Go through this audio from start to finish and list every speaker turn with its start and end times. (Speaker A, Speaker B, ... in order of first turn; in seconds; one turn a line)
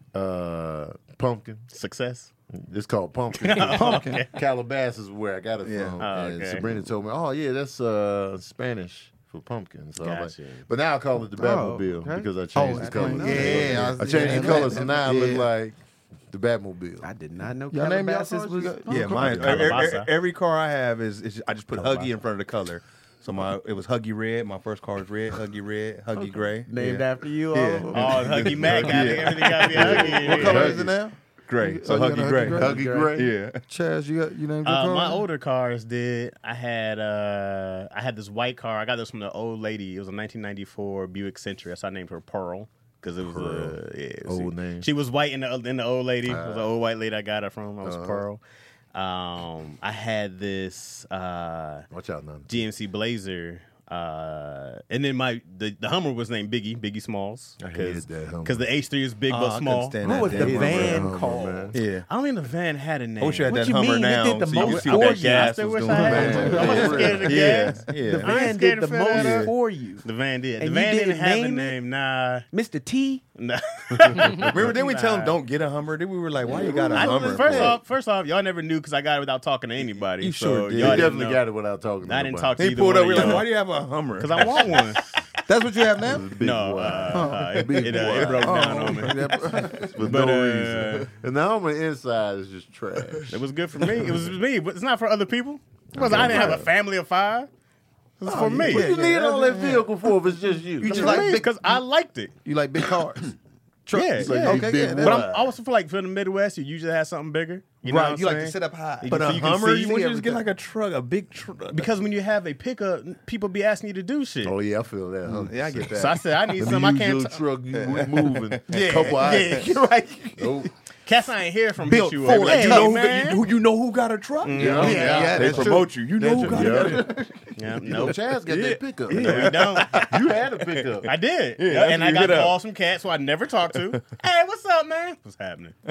Speaker A: 0.1-1.6
Speaker B: 1.7-2.3
Speaker A: 2.5-17.1
Speaker B: 3.4-4.3
Speaker C: 3.5-4.2
Speaker D: 5.6-6.0
Speaker B: 6.0-6.7
Speaker B: 10.0-10.7
Speaker E: 11.4-14.9
Speaker C: 12.5-15.5
Speaker D: 13.3-14.7
Speaker E: 17.0-19.6
Speaker C: 17.7-19.3
Speaker D: 18.9-30.6
Speaker A: 19.2-19.8
Speaker B: 19.2-20.1
Speaker E: 21.8-22.1
Speaker E: 26.2-29.2
Speaker B: 27.9-30.9
Speaker A: 28.6-30.9
Speaker C: 29.8-32.8
Speaker D: 31.5-33.6
Speaker E: 32.5-33.2
Speaker A: 32.5-33.3
Speaker C: 33.7-35.2
Speaker B: 34.6-48.4
Speaker A: 43.2-44.9
Speaker A: 46.2-46.7
Speaker A: 47.8-48.2
Speaker B: 48.9-51.9
Speaker A: 51.9-52.7
Speaker B: 52.5-60.1
Speaker A: 57.6-58.6
Speaker D: 59.3-61.1
Speaker E: 60.0-61.8
Speaker A: 60.0-61.8
Speaker D: 61.7-62.1
Speaker B: 62.1-63.6
Speaker D: 63.2-68.5
Speaker E: 63.5-70.1
Speaker B: 64.5-69.5
Speaker A: 65.9-67.8
Speaker C: 66.2-66.8
Speaker A: 69.2-69.5
Speaker B: 70.0-72.5
Speaker E: 70.6-71.8
Speaker E: 72.5-73.2
Speaker B: 73.4-75.4
Speaker A: 74.1-74.5
Speaker D: 74.2-77.8
Speaker A: 76.4-77.8
Speaker B: 76.7-81.4
Speaker D: 80.2-81.2
Speaker A: 80.7-82.6
Speaker B: 82.0-83.5
Speaker D: 82.6-85.0
Speaker B: 84.2-85.1
Speaker A: 84.6-85.0
Speaker C: 85.5-86.3
Speaker A: 86.0-89.0
Speaker B: 86.4-89.5
Speaker C: 87.1-90.0
Speaker D: 87.8-88.4
Speaker A: 89.9-93.4
Speaker B: 90.0-91.1
Speaker B: 93.3-97.5
Speaker A: 95.9-96.7
Speaker C: 96.1-96.6
Speaker B: 98.2-98.9
Speaker C: 98.3-99.9
Speaker A: 98.6-101.4
Speaker C: 100.8-101.8
Speaker B: 100.8-102.3
Speaker C: 102.5-103.3
Speaker C: 103.9-105.3
Speaker B: 103.9-110.2
Speaker A: 104.2-105.5
Speaker C: 107.8-110.4
Speaker D: 109.0-111.9
Speaker B: 111.7-114.6
Speaker A: 114.4-116.0
Speaker D: 115.3-116.5
Speaker B: 115.9-117.4
Speaker A: 116.6-119.7
Speaker D: 117.8-119.8
Speaker C: 118.7-120.5
Speaker A: 120.4-120.7
Speaker B: 121.1-123.4
Speaker C: 121.9-123.1
Speaker D: 122.1-127.2
Speaker B: 124.4-125.5
Speaker A: 124.6-125.7
Speaker C: 124.6-127.5
Speaker A: 126.4-127.1
Speaker B: 127.6-128.2
Speaker A: 127.8-131.1
Speaker D: 128.5-130.3
Speaker B: 129.1-130.1
Speaker B: 131.1-135.8
Speaker D: 131.6-132.6